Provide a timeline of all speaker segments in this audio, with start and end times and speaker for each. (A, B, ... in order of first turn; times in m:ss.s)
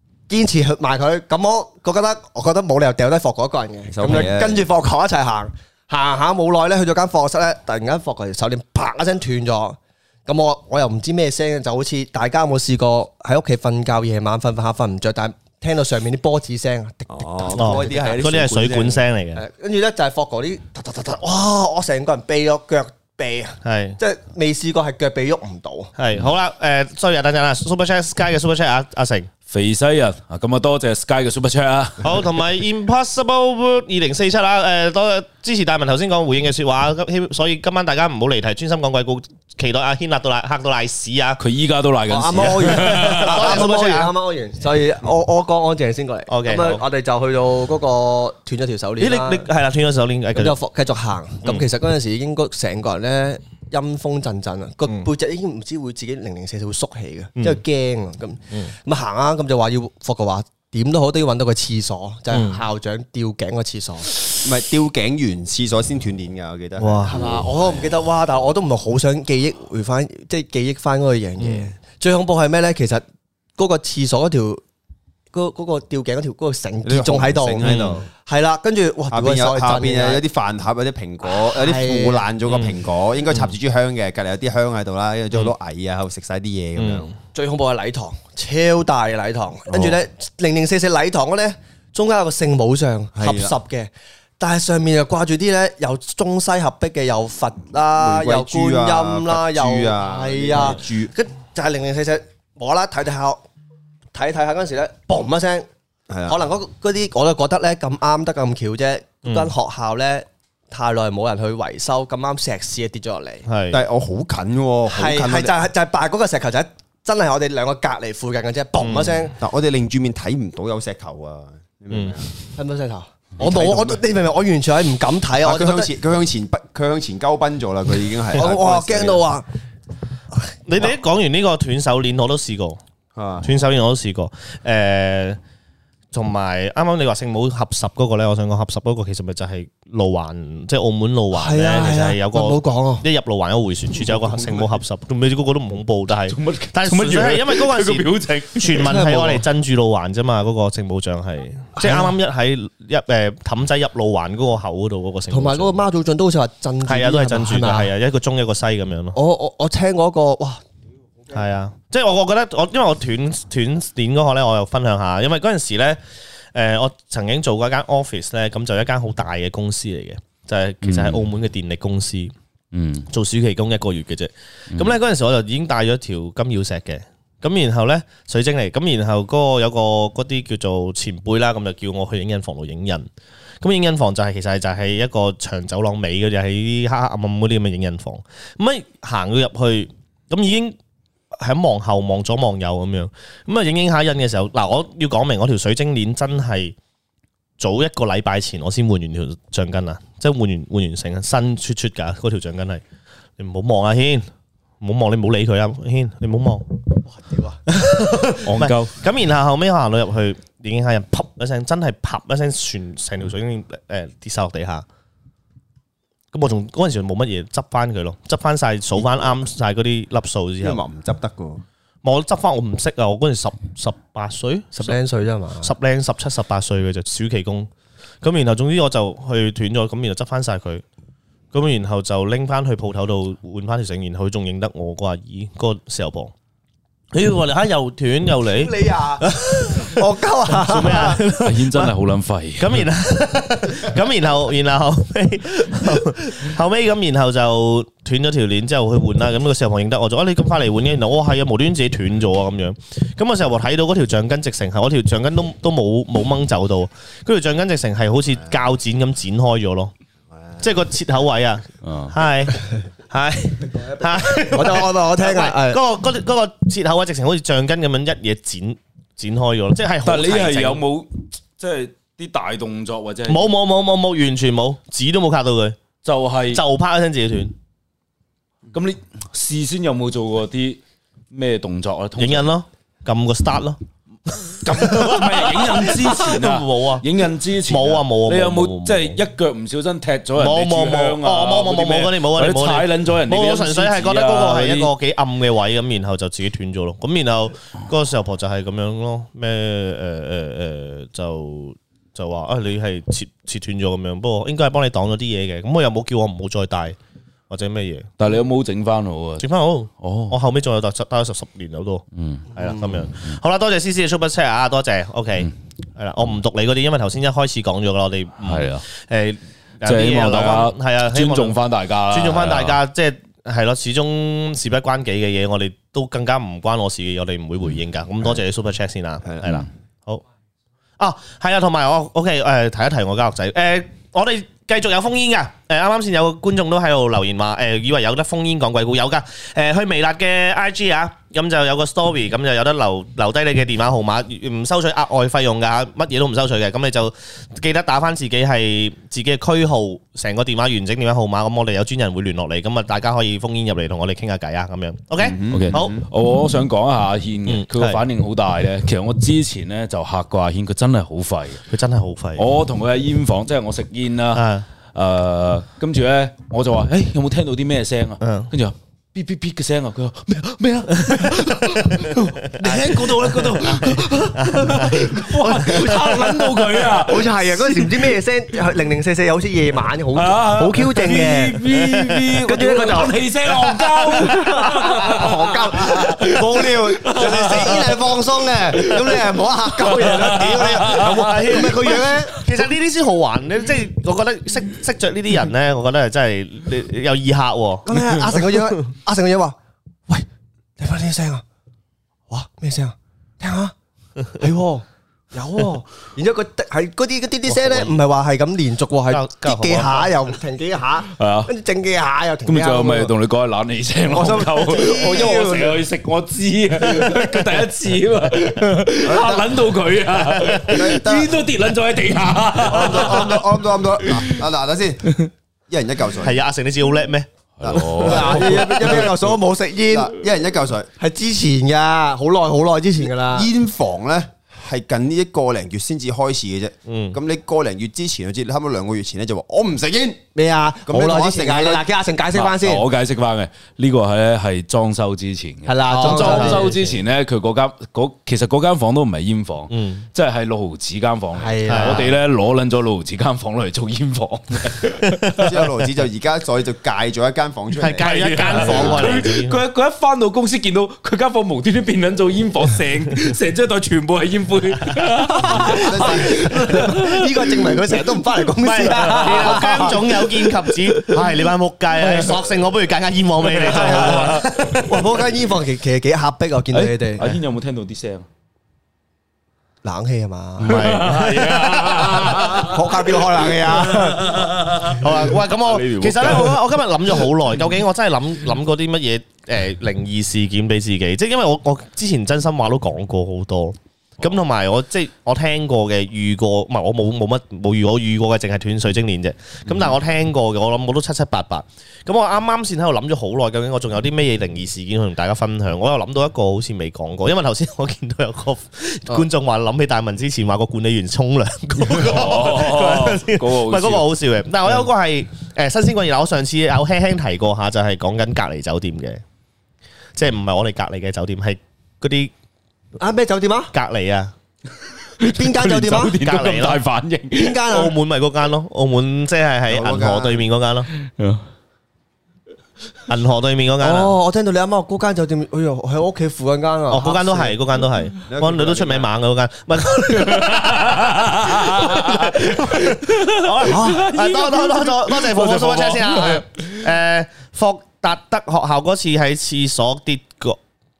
0:00.3-0:18.1 A
0:03.9-0:04.7 B
0:17.1-0:19.0 B
0:17.6-0:19.4 C
0:19.3-0:25.9 A
0:23.6-0:24.0 C
0:26.0-0:29.3 C
0:29.5-0:32.2 D
0:32.0-0:41.4 C
0:41.4-0:43.6 D
0:42.1-0:49.5 A
0:42.9-0:44.1 C
0:46.3-0:46.8 C
0:49.0-0:50.6 C
0:50.4-1:04.1 A
1:02.3-1:02.6 C
1:04.4-1:07.9 B
1:06.8-1:07.2 C
1:07.1-1:13.0 A
1:11.4-1:11.7 C
1:13.6-1:14.6 A
1:15.3-1:20.2 A
1:16.8-1:18.1 B
1:17.6-1:18.0 C
1:19.1-1:27.1 B
1:21.3-1:22.2 A
1:26.8-1:27.1 C
1:27.3-1:43.4 A
1:29.7-1:30.0 B
1:33.1-1:33.5 B
1:37.9-1:41.1 B
1:44.1-1:45.7 A
1:46.1-1:46.4 B
1:46.3-1:53.4 A
1:49.2-1:49.5 C
1:53.4-1:53.8 C
1:53.7-1:55.6 B
1:54.9-1:59.3 A
1:58.8-1:59.2 C
1:59.4-2:02.3 B
2:01.9-2:02.2 C
2:02.6-2:05.9 A
2:03.4-2:04.0 B
2:05.4-2:09.2 B
2:08.3-2:09.4 A
2:10.6-2:12.8 C
2:13.1-2:13.5 B
2:13.4-2:15.4 C
2:16.1-2:35.8 C
2:21.3-2:23.0 A
2:26.3-2:28.9 D
2:28.8-2:29.4 A
2:31.8-2:32.1 A
2:35.3-2:37.9 A
2:36.8-2:39.2 C
2:39.1-2:40.6 A
2:41.3-2:46.0 C
2:46.5-2:52.3 C
2:50.8-2:51.2 D
2:52.7-2:53.1 D
2:53.1-3:03.1 C
3:03.6-3:10.8 C
3:11.4-3:16.8 C
3:17.6-3:22.8 C
3:23.4-3:24.2 C
3:24.8-3:26.7 C
3:27.0-3:27.6 A
3:27.7-3:34.8 C
3:28.4-3:28.9 D
3:36.3-3:40.8 C
3:40.6-3:41.6 B
3:42.0-3:45.0 C
3:44.8-3:45.7 A
3:45.6-3:47.7 C
3:48.2-3:50.8 C
3:51.5-3:56.3 C
3:57.1-4:00.0 C
3:58.5-4:01.2 A
4:00.5-4:01.9 C
4:01.4-4:02.8 D
4:02.6-4:19.9 C
4:20.3-4:20.6 B
4:20.6-4:30.8 C
4:21.8-4:22.1 D
4:23.7-4:25.8 A
4:30.0-4:33.4 D
4:33.3-4:35.8 C
4:36.0-4:36.6 D
4:36.5-4:37.5 C
4:38.7-4:40.8 D
4:41.3-4:42.5 D
4:42.2-4:43.8 C
4:44.5-4:47.1 C
4:44.6-4:54.9 D
4:47.7-4:49.2 C
4:50.4-5:07.0 C
5:07.5-5:08.1 C
5:08.2-5:09.4 D
5:09.4-5:21.6 C
5:10.0-5:10.4 D
5:12.1-5:13.4 D
5:18.4-5:18.8 D
5:19.8-5:22.8 D
5:22.1-5:30.2 C
5:29.2-5:29.6 B
5:31.0-5:55.9 C
5:55.2-5:56.0 B
5:55.5-6:01.6 D
5:57.5-5:58.0 C
6:01.7-6:02.4 C
6:02.4-6:18.2 D
6:04.3-6:04.6 C
6:08.2-6:08.5 C
6:12.5-6:21.6 A
6:14.4-6:16.1 C
6:20.1-6:32.3 D
6:22.4-6:32.4 A
6:30.9-6:37.9 C
6:37.8-6:39.6 A
6:40.8-6:41.4 A
6:42.3-6:43.7 A
6:44.4-6:53.1 A
6:47.5-6:47.9 C
6:49.1-6:50.1 C
6:51.2-6:51.5 D
6:52.4-7:04.4 D
6:54.1-6:55.8 A
6:59.0-6:59.6 B
7:00.5-7:01.5 B
7:02.6-7:06.4 B
7:06.2-7:08.1 C
7:07.6-7:09.1 D
7:07.6-7:10.9 B
7:08.0-7:10.1 A
7:11.0-7:13.5 A
7:13.3-7:20.2 B
7:16.9-7:17.2 C
7:20.3-7:22.8 A
7:20.9-7:21.8 B
7:22.3-7:35.5 D
7:25.6-7:26.9 A
7:25.9-7:26.7 C
7:29.7-7:30.0 C
7:31.3-7:32.1 A
7:31.6-7:32.0 C
7:35.3-7:39.2 B
7:37.8-7:39.6 C
7:38.0-7:47.8 D
7:45.3-7:51.2 A
7:45.6-7:46.5 B
7:48.6-7:55.0 C
7:48.9-7:49.9 D
7:53.6-7:57.4 A
7:53.6-7:54.4 D
7:56.7-7:58.3 D
7:59.8-8:04.5 A
8:00.6-8:02.2 C
8:00.7-8:07.2 D
8:05.0-8:39.2 C
8:31.9-8:34.1 D
8:40.2-8:42.3 C
8:43.0-8:43.7 A
8:43.7-8:44.3 C
8:45.2-8:47.6 D
8:45.2-8:46.2 A
8:46.2-8:46.8 C
8:47.4-8:47.9 A
8:47.7-8:50.9 C
8:49.7-8:50.4 B
8:51.1-8:51.4 D
8:53.1-8:54.1 C
8:53.8-8:57.6 A
8:56.9-9:10.6 C
8:58.3-8:59.1 B
9:00.3-9:06.8 D
9:03.7-9:04.1 A